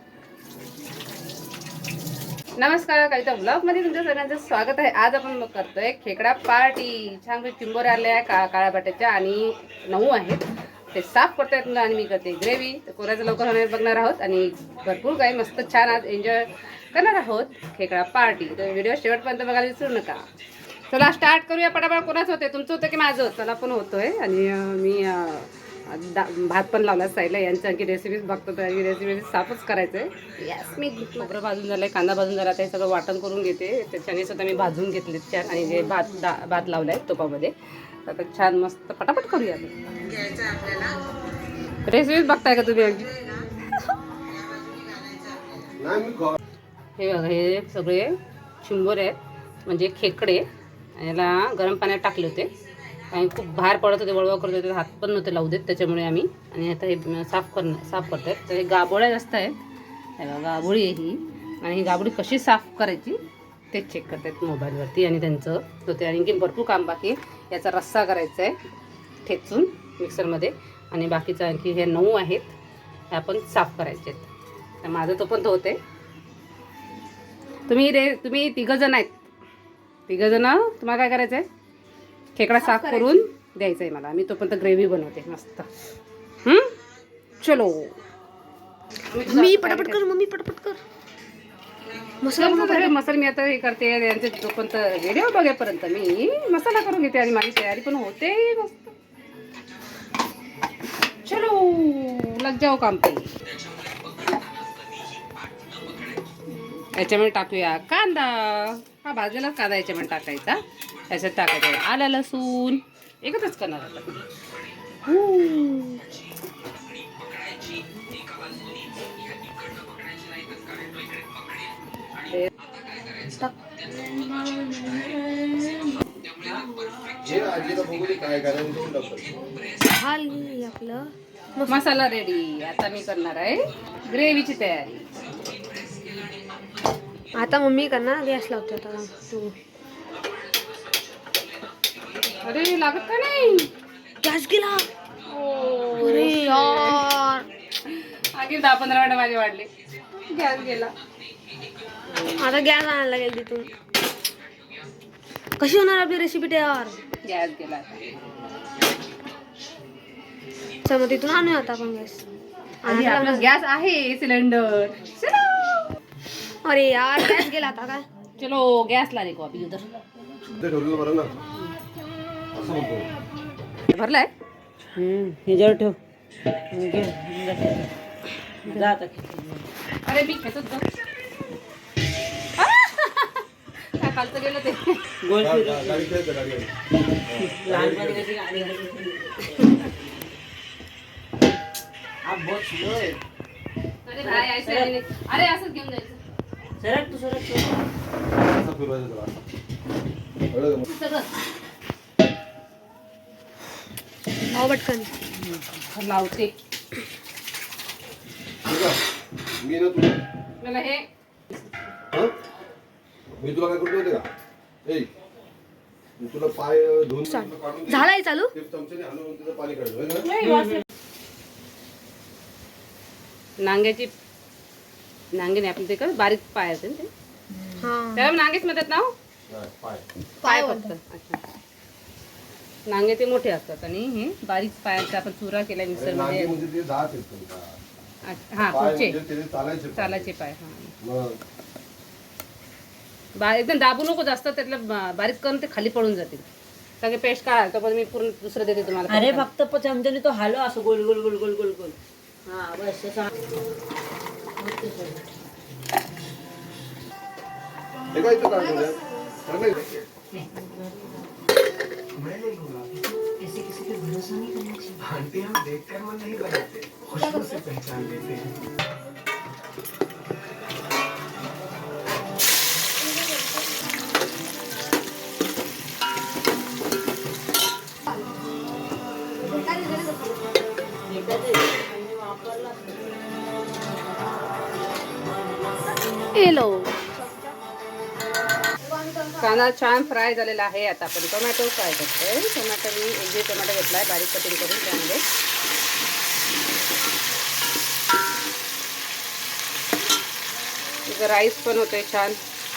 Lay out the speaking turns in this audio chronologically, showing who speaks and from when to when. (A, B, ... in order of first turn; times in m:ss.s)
0:02.6-0:20.2 A
0:20.9-0:37.5 A
0:38.0-0:39.7 A
0:41.9-0:43.2 A
0:45.8-0:46.4 B
0:47.0-0:50.4 A
0:51.0-0:52.5 A
0:53.1-0:59.6 A
1:00.2-1:03.2 A
1:03.7-1:08.6 A
1:09.2-1:12.5 A
1:13.1-1:14.3 A
1:14.8-1:15.8 A
1:17.7-1:19.2 A
1:20.1-1:21.4 A
1:22.4-1:25.7 A
1:22.5-1:23.2 C
1:26.4-1:26.7 A
1:27.4-1:27.9 A
1:29.1-1:30.0 A
1:29.2-1:30.8 C
1:32.2-1:32.9 C
1:32.3-1:38.9 A
1:41.2-1:43.3 A
1:46.9-1:54.2 A
1:55.0-1:56.0 A
2:03.3-2:03.5 C
2:04.5-2:05.7 D
2:07.2-2:09.3 B
2:09.8-2:11.7 C
2:11.7-2:15.1 A
2:17.3-2:19.5 C
2:22.4-2:23.7 A
2:24.2-2:24.9 C
2:25.3-2:27.1 A
2:25.9-2:27.4 C
2:27.9-2:30.9 A
2:32.3-2:33.7 C
2:35.6-2:37.0 C
2:37.2-2:38.1 A
2:40.8-2:42.2 C
2:42.8-2:43.5 C
2:42.8-2:45.4 A
2:46.6-2:48.0 C
2:48.4-2:49.9 A
2:50.5-2:51.3 B
2:52.5-2:53.1 B
2:53.9-2:54.3 A
2:54.9-2:56.0 D
2:56.7-2:57.9 D
2:58.6-2:59.7 D
3:00.0-3:01.0 A
3:02.6-3:05.0 A
3:05.2-3:06.1 D
3:05.4-3:06.7 B
3:07.2-3:08.3 B
3:07.4-3:10.1 D
3:12.2-3:13.2 D
3:14.0-3:16.2 A
3:14.2-3:14.9 D
3:16.8-3:17.8 D
3:18.4-3:19.3 B
3:20.5-3:20.9 B
3:20.8-3:21.3 A
3:24.5-3:25.1 C
3:25.4-3:26.5 A
3:28.6-3:29.0 B
3:29.6-3:30.2 B
3:30.6-3:31.0 A
3:33.4-3:34.3 B
3:36.2-3:40.3 B
3:37.3-3:38.5 C
3:40.2-3:40.8 A
3:43.6-3:44.1 A
3:45.3-3:47.1 A
3:47.7-3:48.3 C
3:48.1-3:49.1 A
3:49.5-3:50.0 B
3:50.4-3:50.9 C
3:50.4-3:51.4 A
3:52.9-3:56.6 A
3:55.9-3:57.8 B
3:58.2-3:59.2 A
3:58.6-4:00.3 B
4:00.0-4:00.9 A
4:01.0-4:01.4 B
4:03.4-4:06.4 A
4:07.0-4:09.5 A
4:09.1-4:13.3 D
4:14.6-4:15.2 D
4:18.1-4:19.9 B
4:18.2-4:19.4 C
4:20.3-4:21.2 D
4:22.1-4:23.2 E
4:23.4-4:25.0 D
4:25.0-4:28.5 E
4:27.0-4:27.6 C
4:33.0-4:33.6 C
4:39.4-4:40.6 C
4:41.0-4:43.2 D
4:46.3-4:46.9 A
4:47.0-4:47.6 C
4:48.8-4:49.8 C
4:49.4-4:55.2 A
5:01.1-5:02.4 A